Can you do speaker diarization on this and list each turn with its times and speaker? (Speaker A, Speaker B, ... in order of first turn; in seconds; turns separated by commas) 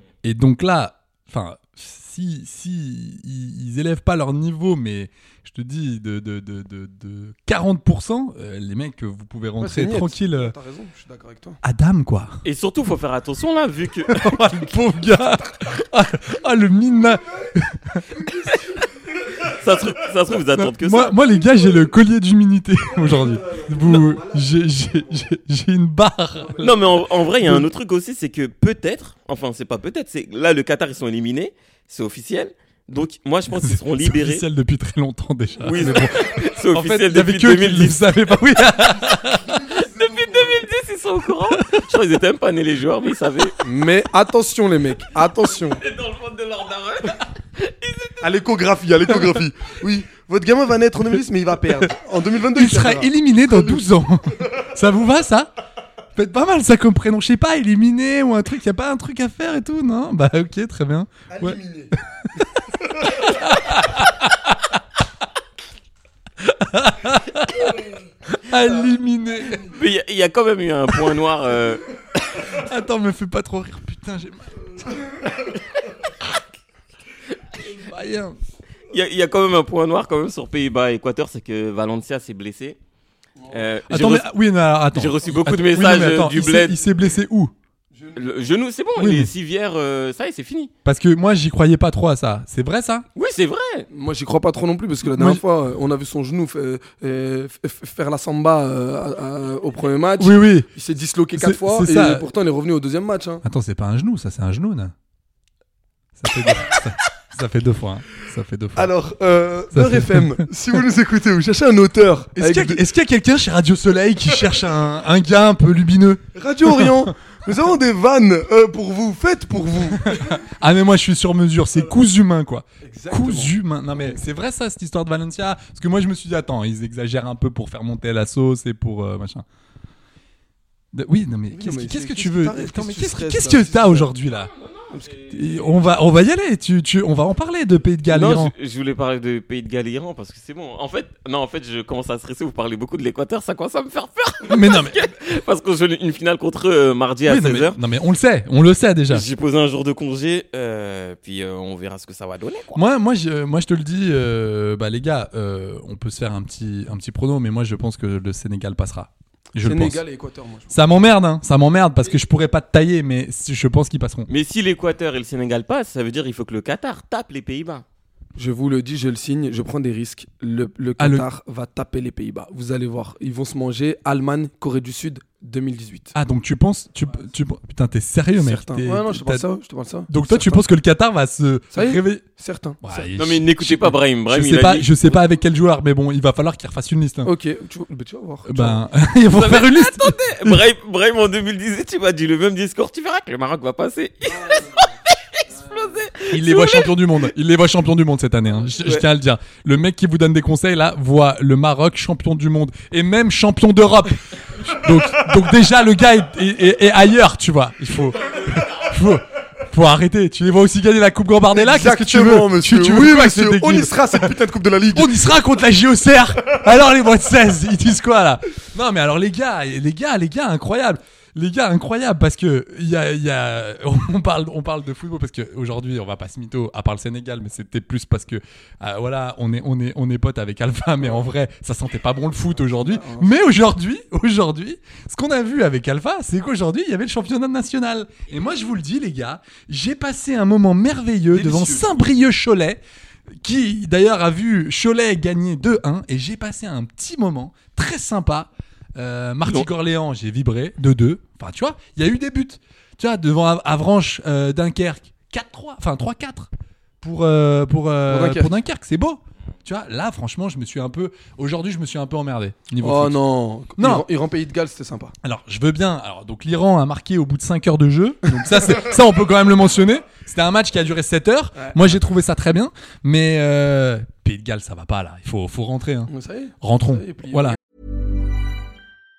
Speaker A: 0.2-10.5, Speaker B: 9.6-11.6, Speaker A: 11.6-12.4, Speaker C: 12.4-14.3, Speaker A: 14.1-18.2, Speaker B: 18.1-19.6, Speaker C: 19.5-21.2, Speaker A: 20.4-26.8, Speaker B: 21.5-21.8, Speaker B: 22.9-25.3, Speaker B: 26.4-26.9, Speaker C: 26.6-34.4, Speaker A: 33.5-39.6, Speaker C: 35.6-38.0, Speaker B: 39.3-40.7, Speaker C: 39.8-43.6, Speaker A: 41.5-41.8, Speaker B: 43.6-45.8, Speaker C: 45.7-48.3, Speaker B: 48.2-53.8, Speaker A: 52.5-55.5, Speaker A: 56.1-61.6, Speaker B: 61.3-61.9, Speaker A: 63.1-64.5, Speaker A: 66.4-67.7, Speaker B: 67.6-67.9, Speaker A: 68.3-69.6, Speaker C: 69.7-71.8, Speaker A: 72.4-74.7, Speaker A: 77.6-78.4, Speaker C: 78.9-82.8, Speaker B: 83.4-83.6, Speaker C: 83.5-84.3, Speaker A: 83.9-87.5, Speaker C: 84.9-86.8, Speaker B: 87.9-88.4, Speaker C: 88.2-90.7, Speaker A: 89.0-89.3, Speaker A: 90.8-93.0, Speaker C: 93.2-93.9, Speaker B: 93.9-103.4, Speaker A: 95.0-95.4, Speaker A: 100.2-100.7, Speaker A: 101.3-102.2, Speaker A: 103.4-104.9, Speaker A: 106.2-108.9, Speaker B: 108.8-112.8, Speaker A: 109.7-110.5, Speaker A: 112.3-117.1, Speaker B: 116.3-120.4, Speaker A: 120.0-129.4, Speaker B: 122.8-124.2, Speaker A: 130.9-134.5, Speaker B: 131.5-134.1, Speaker C: 134.3-135.5, Speaker B: 134.9-135.3, Speaker A: 135.3-138.5, Speaker C: 138.1-147.8, Speaker A: 144.4-145.1, Speaker A: 147.2-149.3, Speaker C: 149.1-152.8, Speaker A: 152.7-160.0, Speaker B: 159.6-160.8, Speaker A: 160.7-164.3, Speaker C: 164.3-167.8, Speaker B: 168.3-176.1, Speaker A: 171.0-171.3, Speaker A: 176.1-179.4, Speaker B: 178.4-180.7, Speaker A: 180.1-182.2, Speaker B: 181.7-183.1, Speaker A: 182.8-187.3, Speaker C: 183.2-185.2, Speaker B: 187.2-188.8, Speaker A: 188.4-190.6, Speaker C: 189.3-197.2, Speaker B: 194.3-194.9, Speaker B: 195.4-196.0, Speaker A: 196.3-214.4, Speaker B: 211.5-215.3, Speaker A: 214.9-242.8, Speaker B: 232.6-233.3, Speaker B: 241.3-242.0, Speaker A: 243.4-256.5, Speaker A: 257.0-263.2, Speaker B: 258.1-258.5, Speaker B: 262.8-265.1, Speaker A: 263.8-264.1, Speaker A: 265.2-277.6, Speaker B: 271.6-272.0, Speaker B: 276.1-277.6